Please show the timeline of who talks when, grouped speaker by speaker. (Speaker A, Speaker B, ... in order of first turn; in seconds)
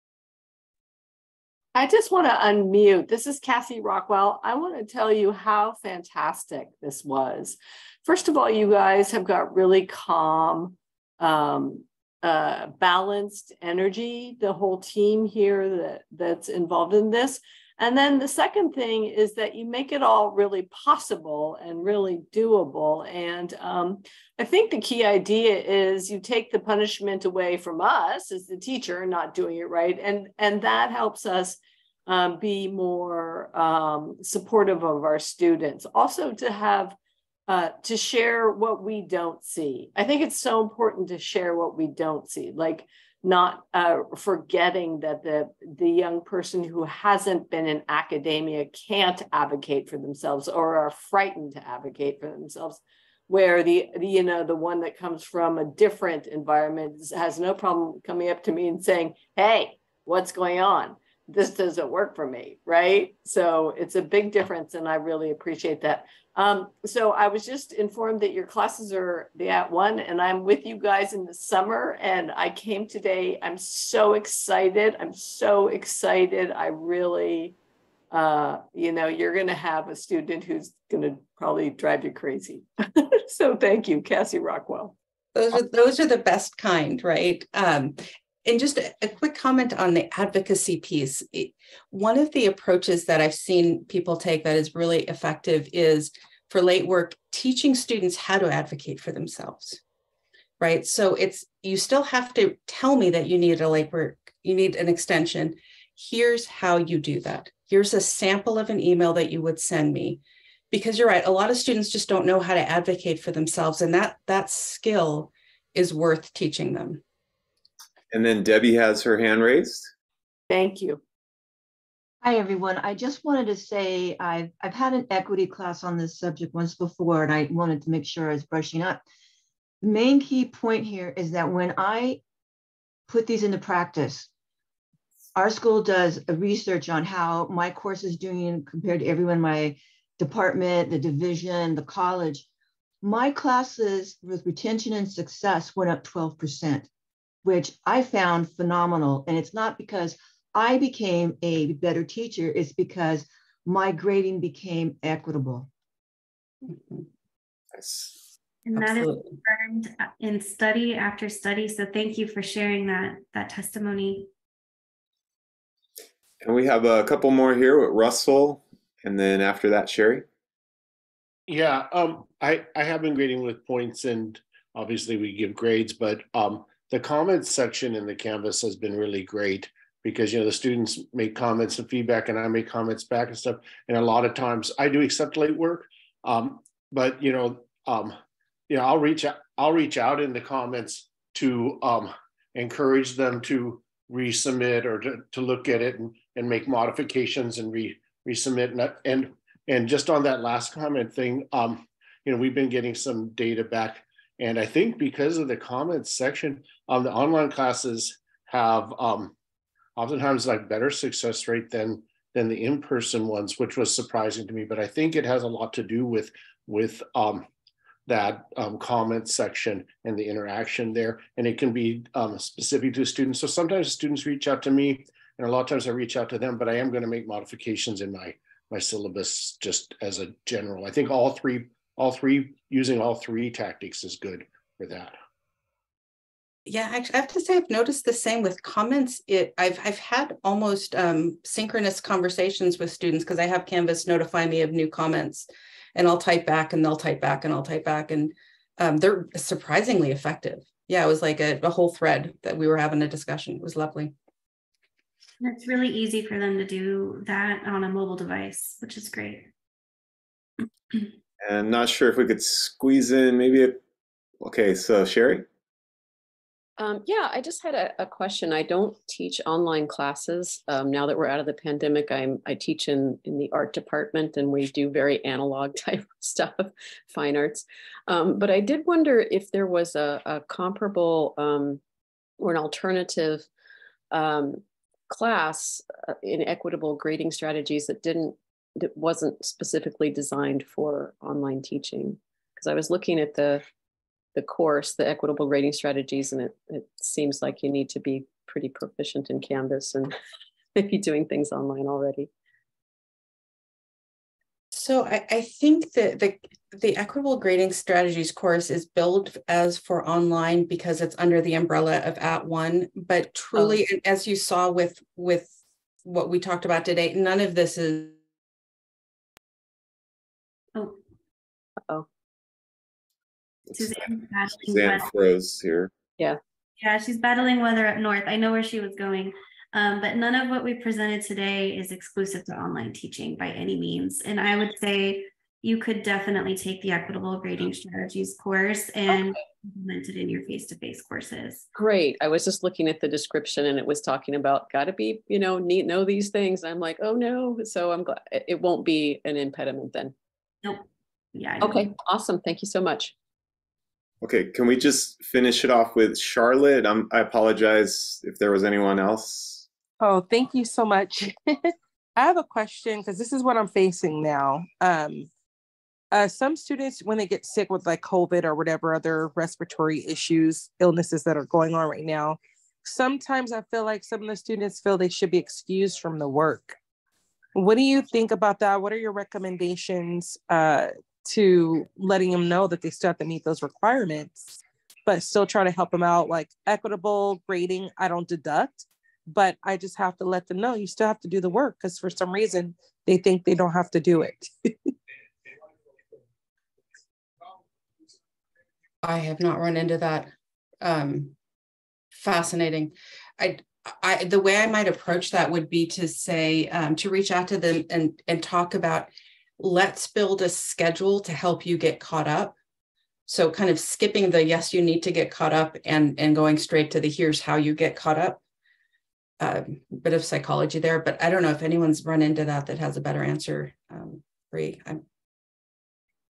Speaker A: 1.7-37.0, 37.5-77.6, 78.1-85.0, 120.5-121.0
Speaker B: 85.3-99.8, 100.6-110.2, 110.7-117.0, 156.7-157.0, 158.7-159.4, 236.7-254.1, 304.7-315.5, 316.0-318.1, 399.0-401.3, 402.1-412.6, 413.3-418.4, 419.4-425.0
Speaker C: 118.1-119.9, 157.8-158.1, 166.4-170.2, 261.4-263.8, 264.4-265.4, 323.7-325.9, 354.2-359.6
Speaker D: 122.2-129.0, 129.8-132.2, 133.1-134.3, 135.3-142.4, 143.0-146.9, 147.4-155.7
Speaker E: 158.6-164.3, 255.4-259.5, 323.7-325.1, 326.8-341.6, 350.6-351.9
Speaker F: 171.5-188.2, 188.7-209.3, 210.0-217.5, 218.1-235.2
Speaker G: 266.8-281.8, 282.4-283.5, 284.1-293.6, 294.4-300.1, 300.8-302.3, 341.8-350.1, 351.6-353.1
Speaker H: 360.0-365.3, 366.1-376.8, 377.5-394.9